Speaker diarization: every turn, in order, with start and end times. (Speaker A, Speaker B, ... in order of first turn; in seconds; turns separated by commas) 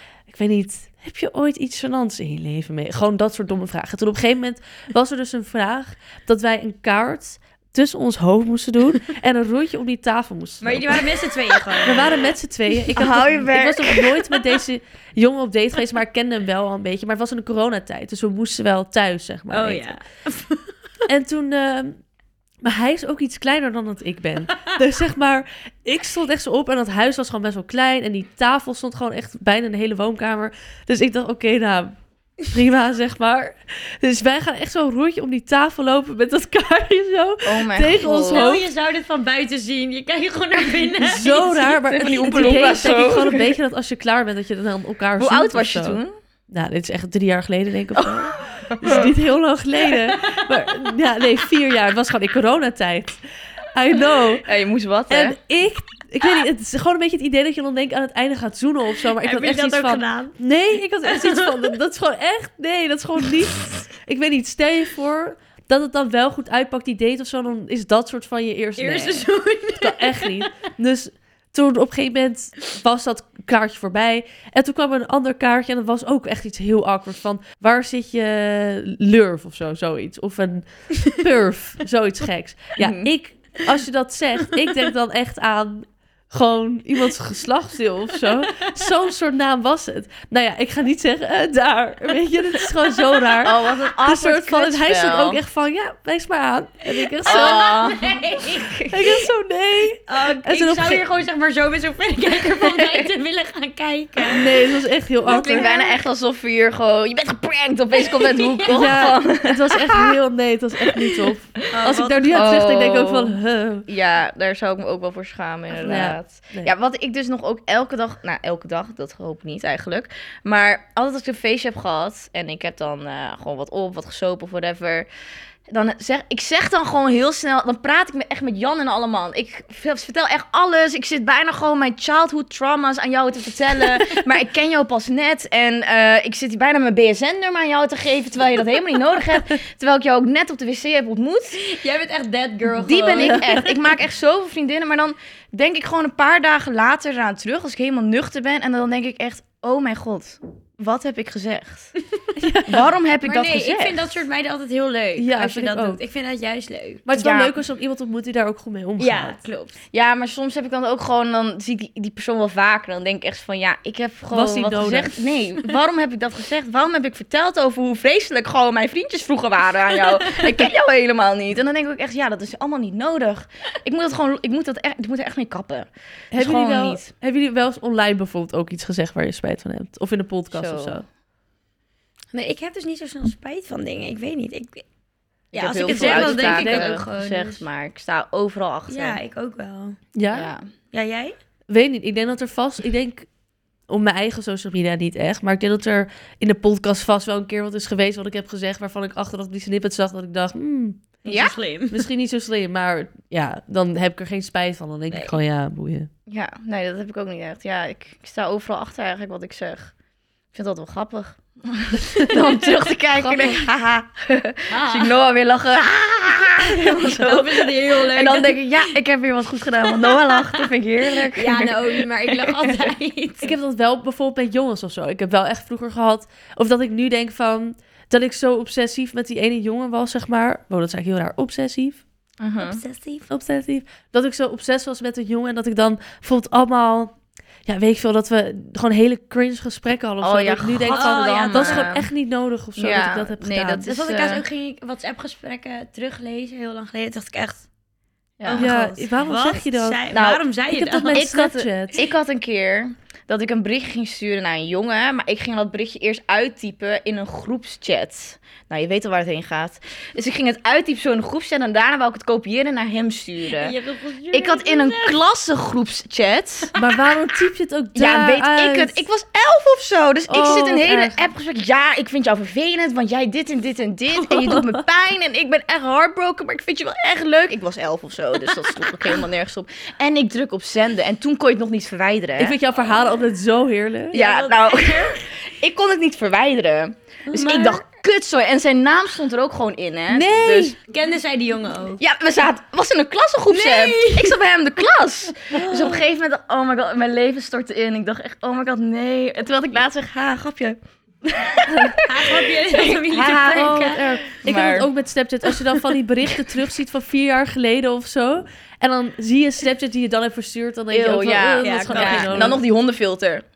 Speaker A: 0.3-11.2, Speaker B: 10.6-12.2, Speaker A: 11.8-19.9, Speaker C: 12.9-14.1, Speaker B: 19.5-20.7, Speaker A: 21.1-22.0, Speaker A: 22.6-38.7, Speaker C: 37.4-38.5, Speaker B: 38.0-43.2, Speaker A: 41.0-46.0, Speaker C: 41.9-43.5, Speaker C: 45.2-46.1, Speaker A: 46.5-53.2, Speaker C: 47.9-49.1, Speaker A: 53.7-54.5, Speaker C: 54.5-55.4, Speaker A: 55.1-69.3, Speaker B: 59.2-60.4, Speaker B: 61.0-61.7, Speaker B: 68.8-70.4, Speaker A: 69.8-97.8, Speaker C: 82.8-83.1, Speaker C: 93.4-95.4, Speaker B: 97.1-98.8, Speaker C: 97.3-99.0, Speaker A: 98.9-101.0, Speaker B: 100.1-104.6, Speaker C: 102.6-103.1, Speaker A: 104.2-105.7, Speaker C: 105.2-110.2, Speaker B: 105.4-105.9, Speaker B: 108.0-109.0, Speaker A: 108.7-113.9, Speaker B: 111.7-112.6, Speaker C: 112.3-113.3, Speaker C: 113.9-125.0, Speaker A: 115.8-116.7, Speaker C: 125.7-141.6, Speaker B: 141.6-143.7, Speaker C: 142.7-151.9, Speaker A: 152.4-152.8, Speaker C: 152.7-154.2, Speaker B: 153.2-157.0, Speaker A: 155.2-156.0, Speaker A: 157.1-159.4, Speaker C: 157.1-157.6, Speaker B: 159.0-159.8, Speaker C: 159.9-177.1, Speaker A: 164.3-165.1, Speaker A: 176.3-181.0, Speaker C: 180.5-181.0, Speaker B: 182.3-184.8, Speaker C: 185.5-189.2, Speaker B: 185.5-187.6, Speaker A: 185.8-186.9, Speaker B: 188.9-190.0, Speaker A: 190.1-190.5, Speaker C: 190.3-190.7, Speaker B: 190.9-191.3, Speaker A: 191.7-193.3, Speaker A: 193.9-201.2, Speaker B: 201.2-202.1, Speaker C: 201.3-201.5, Speaker A: 201.9-206.1, Speaker B: 205.1-205.3, Speaker C: 206.3-209.9, Speaker C: 210.5-222.9, Speaker B: 214.7-215.1, Speaker B: 216.7-218.9, Speaker B: 219.8-223.5, Speaker A: 223.4-232.0, Speaker C: 232.4-232.8, Speaker B: 232.6-233.2, Speaker A: 233.3-237.1, Speaker A: 237.7-243.9, Speaker C: 240.2-242.1, Speaker B: 240.9-241.9, Speaker C: 242.8-244.4, Speaker B: 243.9-247.6, Speaker C: 248.4-248.7, Speaker B: 248.4-251.3, Speaker A: 248.6-250.1, Speaker C: 250.1-250.4, Speaker A: 250.7-252.0, Speaker C: 251.1-263.7, Speaker B: 263.5-265.1, Speaker C: 264.3-266.7, Speaker A: 266.7-269.0, Speaker C: 267.9-282.5, Speaker A: 270.3-271.2, Speaker A: 274.2-274.8, Speaker A: 282.4-284.2, Speaker B: 284.1-285.2, Speaker C: 284.1-290.7, Speaker B: 287.3-287.8, Speaker A: 290.1-290.8, Speaker B: 290.8-292.0, Speaker C: 292.0-304.9, Speaker B: 293.5-294.4, Speaker B: 295.5-295.9, Speaker B: 301.9-304.0, Speaker A: 303.4-312.6, Speaker C: 305.4-306.0, Speaker C: 310.9-313.4, Speaker B: 311.6-312.6